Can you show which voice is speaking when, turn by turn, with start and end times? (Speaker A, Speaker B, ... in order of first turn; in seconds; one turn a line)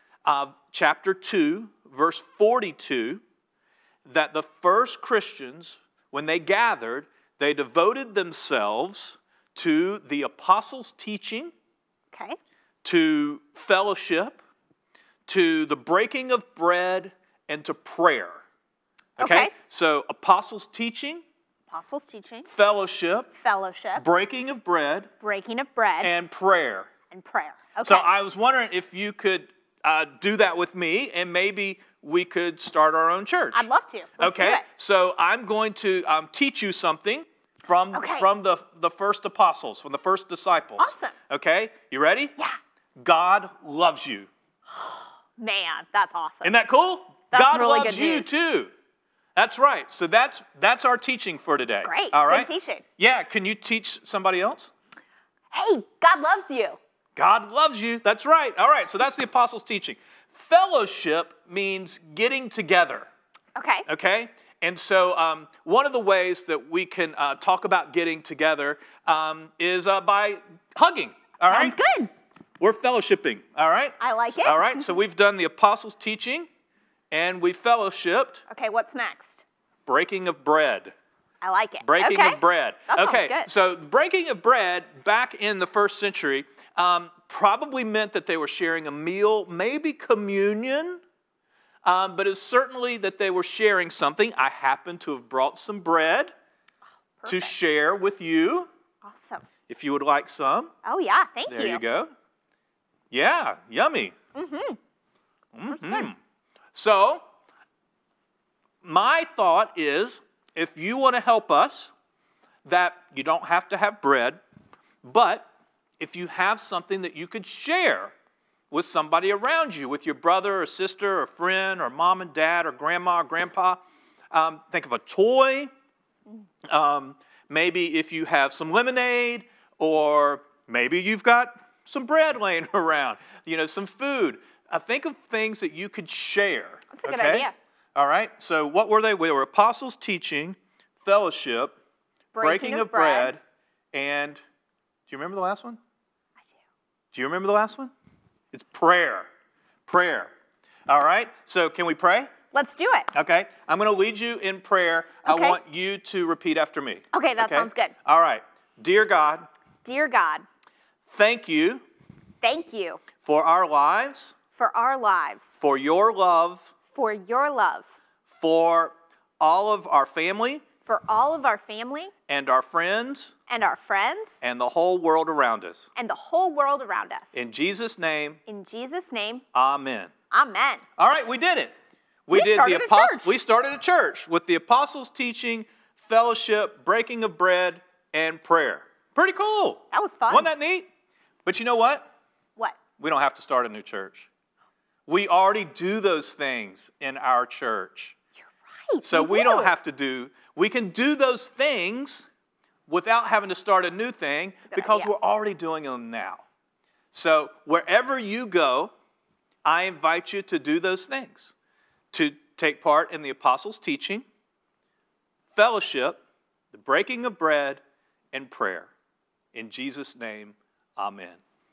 Speaker A: 0.2-3.2
Speaker A: 4.0-11.5
Speaker B: 12.1-12.4
Speaker A: 12.8-14.4
Speaker A: 15.3-18.4
Speaker A: 19.2-21.2
Speaker B: 19.2-19.5
Speaker B: 21.7-22.5
Speaker A: 22.5-23.3
Speaker B: 23.4-24.1
Speaker A: 23.9-25.1
Speaker B: 25.2-26.1
Speaker A: 26.0-26.9
Speaker B: 27.1-28.1
Speaker A: 27.8-33.7
Speaker B: 33.5-34.6
Speaker A: 34.2-42.3
Speaker B: 37.9-38.3
Speaker B: 40.8-41.1
Speaker A: 43.0-44.3
Speaker B: 44.7-46.5
Speaker A: 46.4-48.7
Speaker B: 47.3-48.3
Speaker A: 49.4-54.7
Speaker B: 51.8-52.8
Speaker B: 55.5-56.8
Speaker A: 57.1-63.1
Speaker B: 63.5-63.9
Speaker A: 63.9-71.8
Speaker B: 71.5-72.1
Speaker A: 72.6-76.5
Speaker B: 74.0-74.8
Speaker A: 77.1-78.4
Speaker B: 78.5-79.4
Speaker A: 79.8-80.9
Speaker B: 81.4-83.5
Speaker A: 81.8-91.0
Speaker A: 91.8-96.3
Speaker B: 97.2-97.5
Speaker A: 97.3-98.7
Speaker B: 99.0-99.5
Speaker A: 99.7-100.7
Speaker B: 100.8-101.8
Speaker A: 101.5-102.1
Speaker A: 103.1-104.1
Speaker B: 104.3-104.8
Speaker A: 105.5-106.2
Speaker B: 105.7-106.1
Speaker A: 106.7-107.2
Speaker A: 108.8-111.9
Speaker A: 112.6-114.4
Speaker A: 115.0-115.5
Speaker A: 116.0-118.1
Speaker A: 118.7-123.8
Speaker A: 124.3-125.7
Speaker A: 126.7-141.8
Speaker B: 136.9-137.5
Speaker B: 142.3-143.3
Speaker A: 142.4-143.4
Speaker A: 143.9-144.4
Speaker A: 145.1-145.8
Speaker A: 147.1-147.9
Speaker A: 148.5-149.3
Speaker A: 149.9-150.3
Speaker A: 150.9-152.3
Speaker B: 152.5-153.1
Speaker A: 153.1-159.5
Speaker B: 155.2-155.6
Speaker B: 157.1-157.9
Speaker B: 159.8-160.4
Speaker A: 161.1-161.8
Speaker B: 162.4-163.0
Speaker A: 163.2-164.3
Speaker B: 164.6-165.6
Speaker A: 165.6-166.7
Speaker B: 166.9-167.9
Speaker A: 168.3-170.6
Speaker B: 170.8-172.1
Speaker A: 172.3-173.3
Speaker B: 173.5-174.4
Speaker A: 174.4-175.8
Speaker B: 175.9-177.4
Speaker A: 177.3-178.4
Speaker B: 178.5-179.4
Speaker A: 179.5-180.1
Speaker B: 180.3-180.8
Speaker A: 181.0-181.7
Speaker A: 182.2-190.9
Speaker B: 182.3-183.4
Speaker B: 189.9-190.5
Speaker A: 191.4-192.1
Speaker A: 193.0-194.3
Speaker A: 195.1-198.2
Speaker B: 198.9-199.7
Speaker A: 199.0-202.3
Speaker A: 202.9-206.4
Speaker B: 204.6-205.1
Speaker A: 207.1-208.9
Speaker A: 209.6-211.5
Speaker A: 212.1-214.2
Speaker A: 215.5-216.2
Speaker A: 216.7-217.8
Speaker A: 218.3-218.9
Speaker A: 219.5-221.4